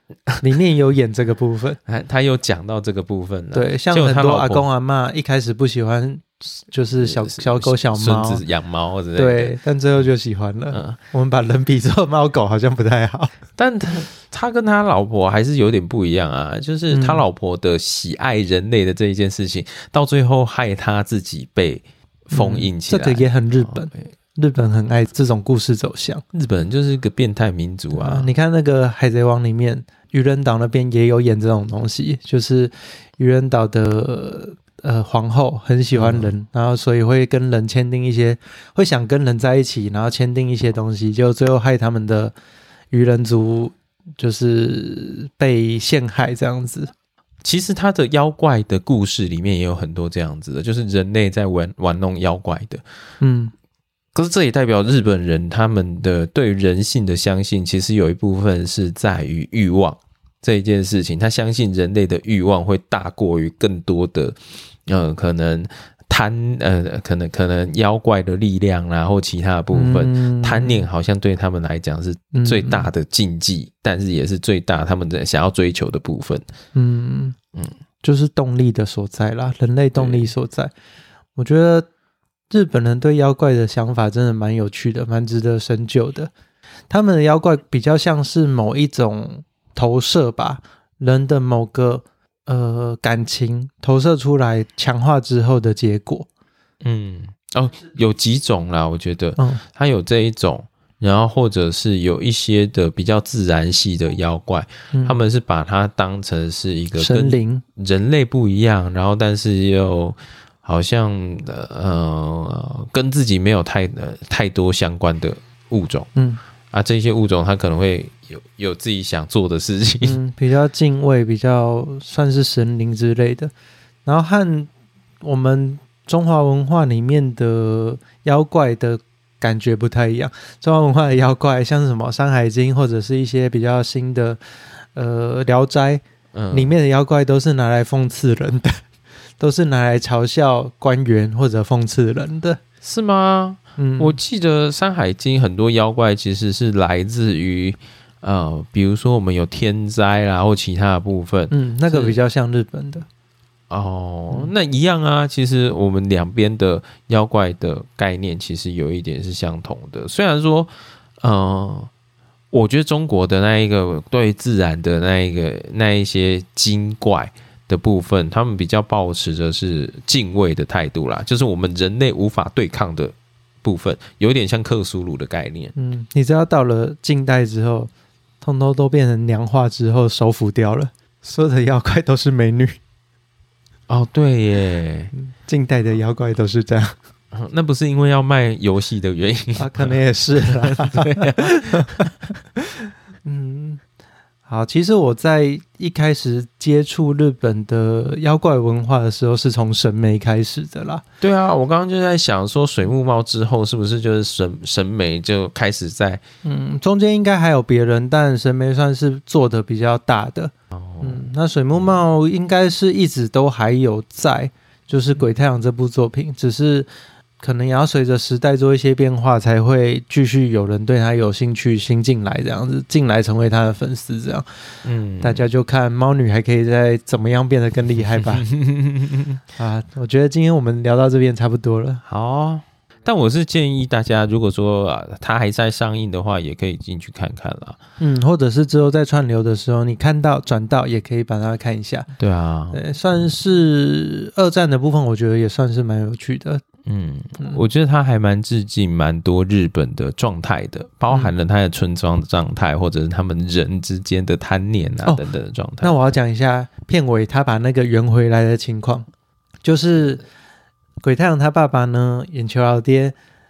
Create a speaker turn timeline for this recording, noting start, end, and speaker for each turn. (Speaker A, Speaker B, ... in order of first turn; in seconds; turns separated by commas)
Speaker A: 0.4-1.8, Speaker B: 1.9-4.7, Speaker A: 3.5-8.4, Speaker B: 7.0-9.6, Speaker A: 9.1-13.3, Speaker B: 10.7-11.0, Speaker B: 13.6-24.1, Speaker A: 16.9-17.2, Speaker A: 22.3-26.2, Speaker B: 26.3-28.3, Speaker A: 27.9-42.3, Speaker B: 35.9-36.3, Speaker A: 42.9-46.9, Speaker B: 47.4-52.8, Speaker A: 53.2-53.5, Speaker B: 54.1-76.4, Speaker A: 69.7-70.8, Speaker A: 72.3-72.9, Speaker A: 76.7-77.3, Speaker A: 78.0-80.7, Speaker B: 80.0-80.3, Speaker A: 81.3-81.9, Speaker A: 82.5-86.3, Speaker A: 86.9-96.3, Speaker B: 96.8-116.1, Speaker A: 104.9-105.2, Speaker A: 106.9-107.6, Speaker A: 116.2-116.4, Speaker B: 116.7-120.2, Speaker A: 120.0-123.5, Speaker A: 124.0-124.7, Speaker A: 125.2-134.4, Speaker A: 134.9-138.7, Speaker B: 136.3-136.7, Speaker A: 139.4-142.6, Speaker B: 142.8-152.2, Speaker A: 143.8-144.2, Speaker A: 151.5-153.1, Speaker B: 153.7-161.9, Speaker B: 162.5-175.7, Speaker A: 175.8-177.9, Speaker A: 178.4-182.8, Speaker B: 183.9-185.1, Speaker A: 185.1-186.9, Speaker B: 187.3-192.1, Speaker A: 189.6-193.8, Speaker A: 194.5-201.0, Speaker B: 201.2-206.2, Speaker A: 206.4-216.9, Speaker B: 210.7-211.2, Speaker A: 217.4-224.4, Speaker B: 224.8-225.5, Speaker A: 225.2-228.5, Speaker B: 228.2-229.4, Speaker A: 229.6-232.0, Speaker B: 232.0-237.8, Speaker A: 238.0-242.1, Speaker B: 242.2-242.8, Speaker A: 242.7-246.6, Speaker B: 246.8-255.9, Speaker A: 255.8-259.1, Speaker A: 259.6-260.2, Speaker A: 261.0-263.1